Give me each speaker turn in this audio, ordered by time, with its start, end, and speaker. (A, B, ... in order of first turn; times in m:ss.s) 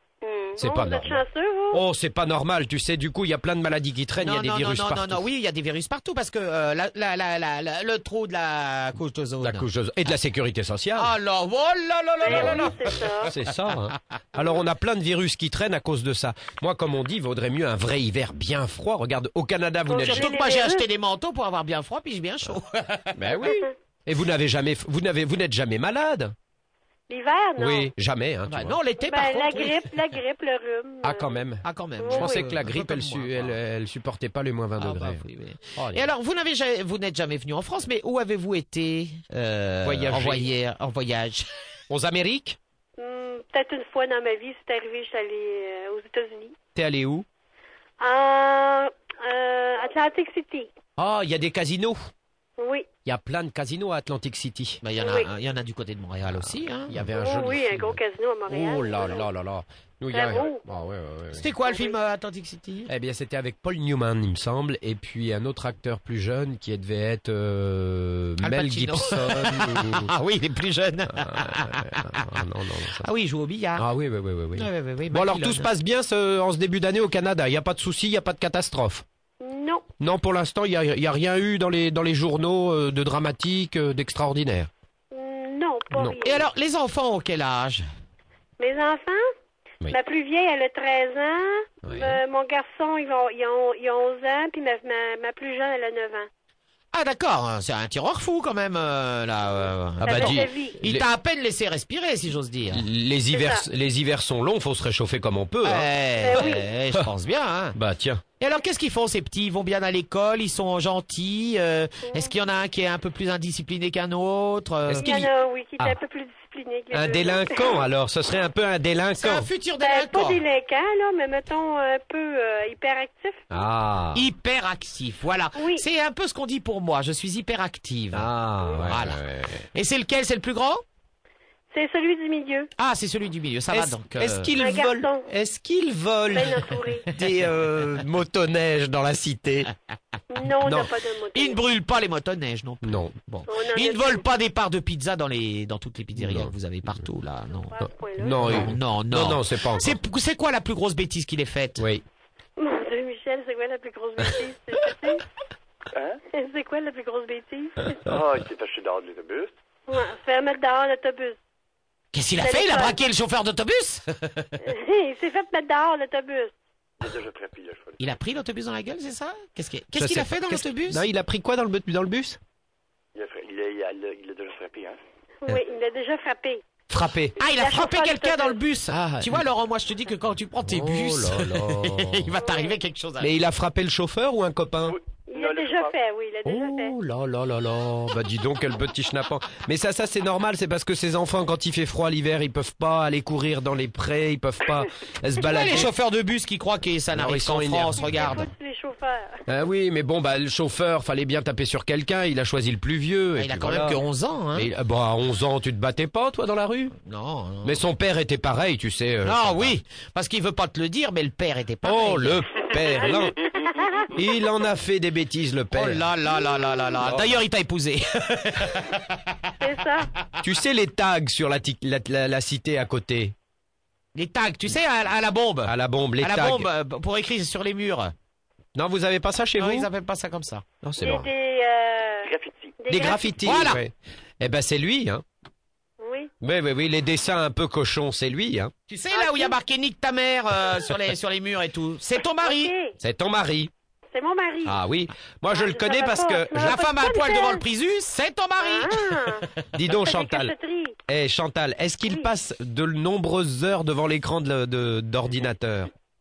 0:00.2-0:01.8 A
0:00.6-0:05.3 B
0:04.2-0:09.7 C
0:09.4-0:11.1 B
0:11.0-0:13.1 C
0:12.2-0:13.4 A
0:12.3-0:20.4 B
0:19.9-0:20.9 A
0:20.0-0:23.5 C
0:23.2-0:26.4 B
0:23.5-0:23.7 A
0:27.1-0:27.9 A
0:27.6-0:28.8 B
0:28.5-0:29.9 C
0:29.0-0:31.4 A
0:31.0-0:35.2 B
0:31.6-0:33.6 C
0:32.0-0:32.5 A
0:34.8-0:41.5 C
0:35.8-0:36.1 B
0:39.8-0:40.5 B
0:41.9-0:42.6 B
0:43.0-0:46.6 A
0:46.8-0:47.3 B
0:48.0-0:50.7 A
0:51.0-0:52.1 B
0:52.6-0:52.9 A
0:53.1-0:54.8 B
0:54.8-0:57.1 C
0:55.0-0:55.3 A
0:56.3-1:01.5 B
0:57.1-0:59.2 A
1:00.1-1:00.6 A
1:01.3-1:02.9 C
1:01.7-1:02.0 A
1:02.9-1:10.1 B
1:08.4-1:12.4 C
1:11.1-1:13.1 B
1:13.0-1:13.9 C
1:13.8-1:19.0 B
1:14.6-1:15.7 C
1:19.4-1:19.9 A
1:20.0-1:24.7 B
1:25.1-1:26.4 A
1:25.9-1:26.2 B
1:26.2-1:27.8 C
1:28.6-1:29.2 A
1:29.9-1:36.3 A
1:31.9-1:32.2 B
1:36.9-1:42.9 C
1:40.0-1:40.8 A
1:40.0-1:41.1 B
1:42.7-1:47.1 B
1:43.3-1:43.6 A
1:45.6-1:47.8 C
1:46.2-1:46.7 A
1:47.8-1:48.2 B
1:48.4-1:55.2 C
1:52.0-1:52.3 A
1:54.9-1:56.0 B
1:55.0-1:57.8 A
1:56.9-1:59.5 B
1:59.2-2:00.4 C
1:59.8-2:03.5 A
2:03.5-2:04.3 B
2:04.1-2:09.2 C
2:05.6-2:05.8 A
2:08.1-2:09.7 B
2:09.7-2:10.8 C
2:11.7-2:12.7 A
2:12.8-2:14.5 C
2:13.7-2:19.7 B
2:14.6-2:15.2 A
2:16.3-2:17.1 A
2:20.3-2:21.6 A
2:20.6-2:20.9 B
2:21.3-2:27.8 C
2:22.8-2:23.1 B
2:23.5-2:24.3 A
2:26.2-2:27.0 B
2:27.7-2:28.7 A
2:28.2-2:30.0 B
2:28.4-2:31.9 C
2:31.8-2:32.0 B
2:32.6-2:35.2 A
2:35.9-2:36.2 D
2:36.3-2:38.0 A
2:38.1-2:39.5 D
2:39.9-2:41.4 A
2:42.1-2:44.6 C
2:42.4-2:43.0 A
2:44.6-2:46.5 A
2:47.0-2:48.0 D
2:48.0-2:51.0 C
2:50.0-2:52.4 B
2:53.2-2:55.0 D
2:55.4-2:56.6 A
2:56.9-2:57.4 B
2:57.4-3:03.3 C
2:57.4-2:58.6 A
2:58.9-2:59.5 B
3:00.6-3:02.3 B
3:02.4-3:02.8 A
3:03.2-3:05.0 B
3:04.9-3:05.9 D
3:05.3-3:06.9 A
3:06.4-3:15.9 B
3:15.4-3:18.5 C
3:17.1-3:18.5 B
3:18.0-3:19.4 A
3:19.5-3:24.0 B
3:23.4-3:24.7 C
3:24.5-3:27.0 B
3:27.0-3:27.8 C
3:27.6-3:29.8 B
3:29.2-3:32.4 C
3:31.8-3:33.4 B
3:33.0-3:34.2 A
3:34.1-3:36.0 B
3:35.7-3:39.5 C
3:36.4-3:36.9 A
3:37.0-3:37.4 B
3:39.6-3:40.1 A
3:40.4-3:43.4 B
3:44.2-3:48.1 C
3:45.6-3:46.7 B
3:48.8-3:49.9 B
3:49.6-3:50.6 C
3:50.8-3:51.3 B
3:51.0-3:53.7 A
3:52.2-3:52.8 D
3:52.9-3:55.2 B
3:53.4-3:53.8 C
3:56.0-3:56.3 A
3:56.4-3:58.7 B
3:58.9-4:02.7 C
3:59.1-3:59.6 A
4:02.4-4:03.0 A
4:03.0-4:03.7 B
4:04.1-4:04.8 A
4:04.6-4:06.8 B
4:05.5-4:07.6 A
4:06.6-4:09.5 C
4:08.6-4:11.0 A
4:09.7-4:10.5 B
4:11.1-4:15.9 B